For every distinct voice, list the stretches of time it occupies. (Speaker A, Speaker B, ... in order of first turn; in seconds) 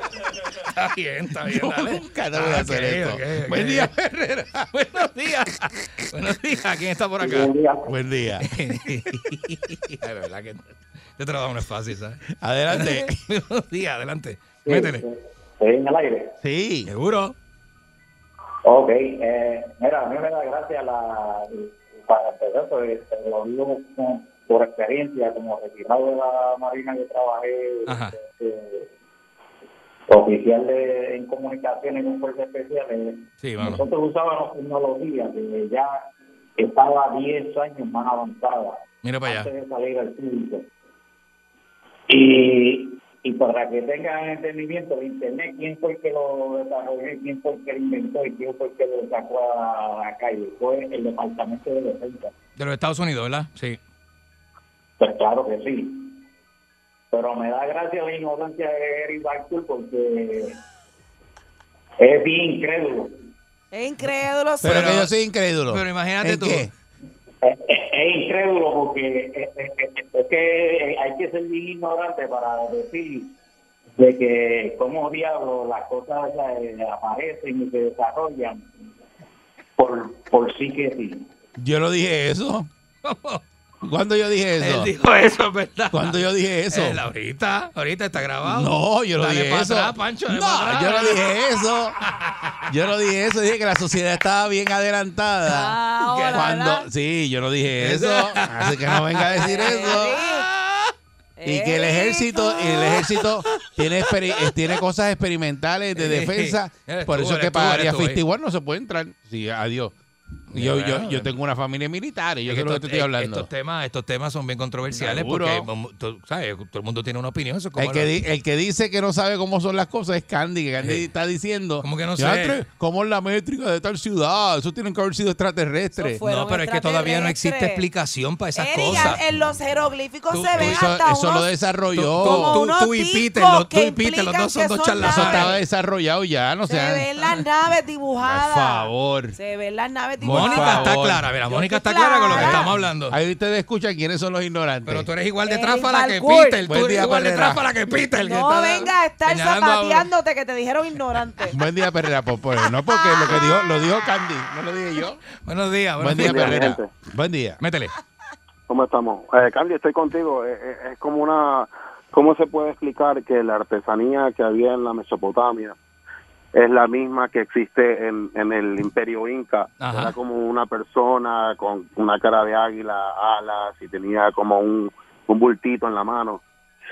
Speaker A: 0.6-7.5, 8.4-15.1, 16.9-17.4, 27.9-28.2, 33.4-33.8, 39.0-39.5, 52.6-53.8, 64.6-65.1, 65.7-66.7, 83.0-83.4, 84.6-91.4, 92.0-92.7, 96.0-96.5, 97.8-100.9, 106.0-108.2, 110.5-111.3, 112.5-118.1, 120.8-121.0, 121.8-122.6, 126.2-129.2, 130.3-130.9, 131.9-135.6, 140.2-143.2, 144.9-150.1, 155.4-156.7, 157.6-158.0, 169.8-170.2
Speaker B: 1.4-4.7, 7.9-8.5, 12.4-13.2, 16.4-16.9, 64.6-66.7, 81.6-82.7, 83.8-84.9, 85.9-87.0, 88.4-92.0, 92.7-95.8, 96.3-100.2, 101.5-110.0, 110.5-113.5, 114.9-115.7, 117.8-126.2, 130.5-132.6, 135.0-137.1, 138.2-139.4, 140.2-141.3, 142.3-145.1, 146.7-147.7, 151.5-155.2, 156.0-157.6
Speaker C: 7.2-7.9, 14.7-16.4, 18.6-28.9, 30.1-36.0, 36.6-40.7, 42.1-52.3, 55.0-56.1, 57.1-60.6, 62.0-63.1, 67.4-73.3, 74.0-78.7, 79.8-81.2
Speaker D: 63.7-64.9, 95.5-96.9, 99.4-100.5, 101.4-103.1, 126.0-127.8, 128.6-131.6, 132.2-135.6, 136.7-140.9, 141.5-142.7, 145.4-146.6, 148.2-151.6, 152.9-153.7
Speaker E: 156.2-156.9, 158.7-165.8, 166.5-176.4